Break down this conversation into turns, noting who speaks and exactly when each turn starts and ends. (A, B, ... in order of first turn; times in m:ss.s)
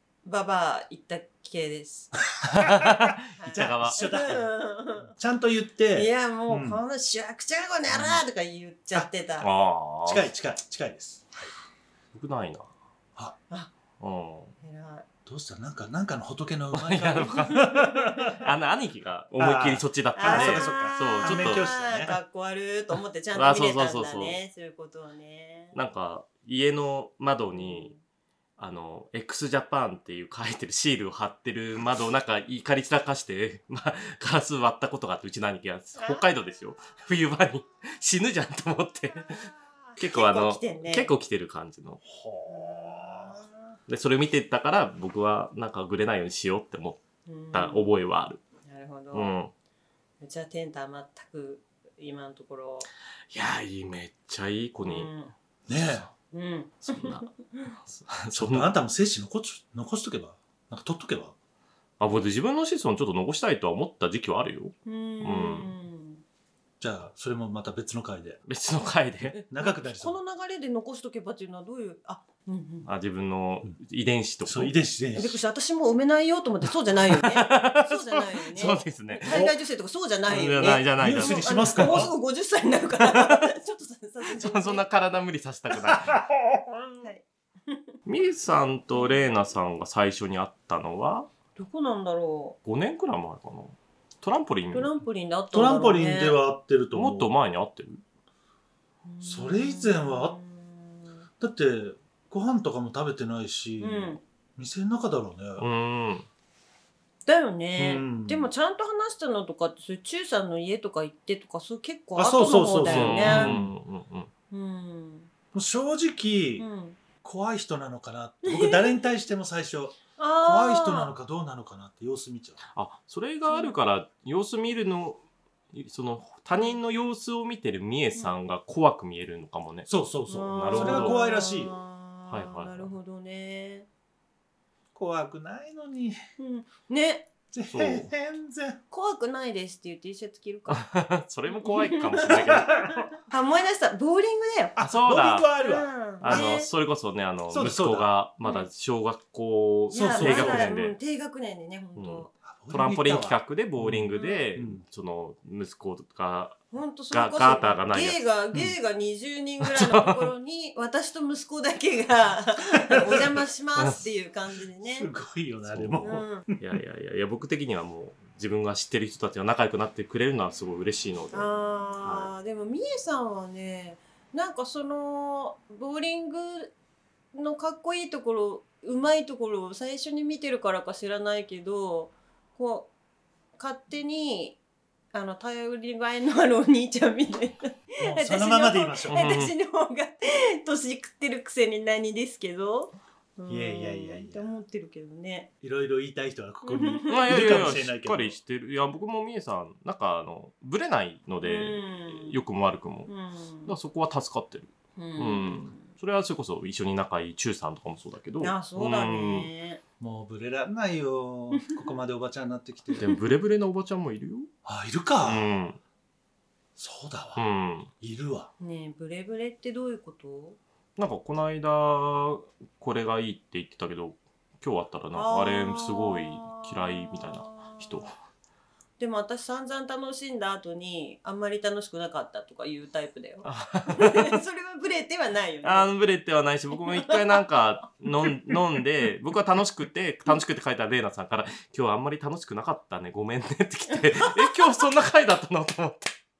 0:00.2-0:02.2 A
0:02.5-0:04.0 B
0:03.4-0:05.1 A
0:03.5-0:06.8 C
0:05.9-0:09.5 A
0:07.9-0:08.2 C
0:09.4-0:10.3 B
0:10.0-0:11.5 C
0:12.1-0:12.7 B
0:14.0-0:14.5 B
0:14.6-0:15.0 A
0:15.2-0:18.5 C
0:16.7-0:17.7 B
0:17.2-0:18.3 A
0:18.3-0:21.7 B
0:19.4-0:22.2 C
0:20.1-0:25.7 A
0:23.3-0:24.4 B
0:25.7-0:27.9 B
0:27.5-0:28.0 A
0:28.6-0:42.0 B
0:36.0-0:36.2 A
0:39.9-0:41.1 A
0:42.0-0:43.4 C
0:42.5-0:43.8 A
0:43.9-0:47.0 B
0:47.2-0:47.9 A
0:47.5-0:48.4 B
0:48.6-0:49.3 A
0:49.1-0:49.5 B
0:50.2-0:52.9 A
0:53.3-0:55.1 B
0:54.8-0:55.3 A
0:55.7-0:56.1 C
0:55.7-0:56.1 B
0:56.3-0:57.7 A
0:56.8-0:58.7 B
0:58.3-1:01.4 C
1:02.0-1:05.7 B
1:04.8-1:06.2 A
1:06.8-1:08.4 C
1:08.5-1:09.4 B
1:09.3-1:12.9 A
1:09.5-1:10.2 C
1:12.8-1:14.7 B
1:14.4-1:15.4 C
1:15.1-1:24.8 A
1:17.1-1:19.4 B
1:19.3-1:19.6 C
1:20.3-1:22.0 B
1:21.0-1:22.1 C
1:24.3-1:26.2 B
1:25.7-1:26.8 C
1:27.0-1:27.8 A
1:28.0-1:31.3 B
1:28.9-1:29.2 A
1:31.5-1:32.6 A
1:32.6-1:34.9 B
1:34.7-1:36.4 A
1:35.5-1:37.3 C
1:36.9-1:38.0 B
1:39.0-1:41.2 A
1:39.2-1:40.4 C
1:41.4-1:45.6 C
1:43.8-1:44.2 A
1:45.6-1:46.3 B
1:47.2-1:53.6 A
1:47.8-1:48.5 C
1:52.2-1:53.7 C
1:52.8-1:54.3 B
1:54.5-1:55.3 A
1:55.5-1:56.6 C
1:56.6-1:57.0 A
1:57.2-2:02.6 C
1:58.4-1:59.0 A
2:00.2-2:01.1 A
2:02.7-2:05.2 B
2:03.5-2:03.8 A
2:05.7-2:09.9 B
2:09.9-2:11.8 C
2:10.3-2:13.9 A
2:10.4-2:11.2 B
2:12.3-2:12.9 B
2:14.9-2:16.2 C
2:16.4-2:17.3 A
2:17.5-2:18.8 C
2:17.7-2:18.1 B
2:18.9-2:20.9 A
2:20.7-2:22.7 B
2:21.5-2:24.8 A
2:22.3-2:23.0 C
2:24.8-2:26.5 C
2:24.8-2:25.5 B
2:25.6-2:26.7 A
2:26.2-2:30.9 B
2:27.5-2:28.1 C
2:28.4-2:28.7 A
2:29.9-2:32.3 A
2:29.9-2:30.8 C
2:32.0-2:36.6 B
2:32.4-2:34.8 C
2:34.1-2:34.4 A
2:36.7-2:45.1 A
2:37.1-2:38.2 B
2:39.6-2:40.3 B
2:43.1-2:43.3 C
2:43.8-2:44.0 B
2:44.8-2:46.6 C
2:45.6-2:51.5 B
2:46.0-2:46.4 A
2:51.3-2:56.7 A
2:52.0-2:52.3 B
2:57.3-3:02.9 A
3:03.6-3:04.6 A
3:05.1-3:15.5 A
3:08.0-3:09.2 C
3:09.1-3:09.5 B
3:13.5-3:14.5 C
3:15.6-3:18.4 C
3:16.6-3:17.7 A
3:17.1-3:23.1 B
3:21.4-3:22.4 A
3:23.1-3:23.8 A
3:23.7-3:29.5 B
3:25.0-3:25.9 A
3:28.4-3:29.8 A
3:30.0-3:33.1 C
3:33.0-3:34.5 B
3:34.6-3:35.5 C
3:35.2-3:35.8 B
3:36.8-3:37.4 C
3:37.4-3:37.9 B
3:38.0-3:38.5 C
3:38.6-3:40.6 A
3:41.0-3:48.1 B
3:45.1-3:48.1 A
3:49.0-3:55.9 A
3:53.4-3:54.4 B
3:55.6-4:06.1 B
3:56.9-3:57.4 A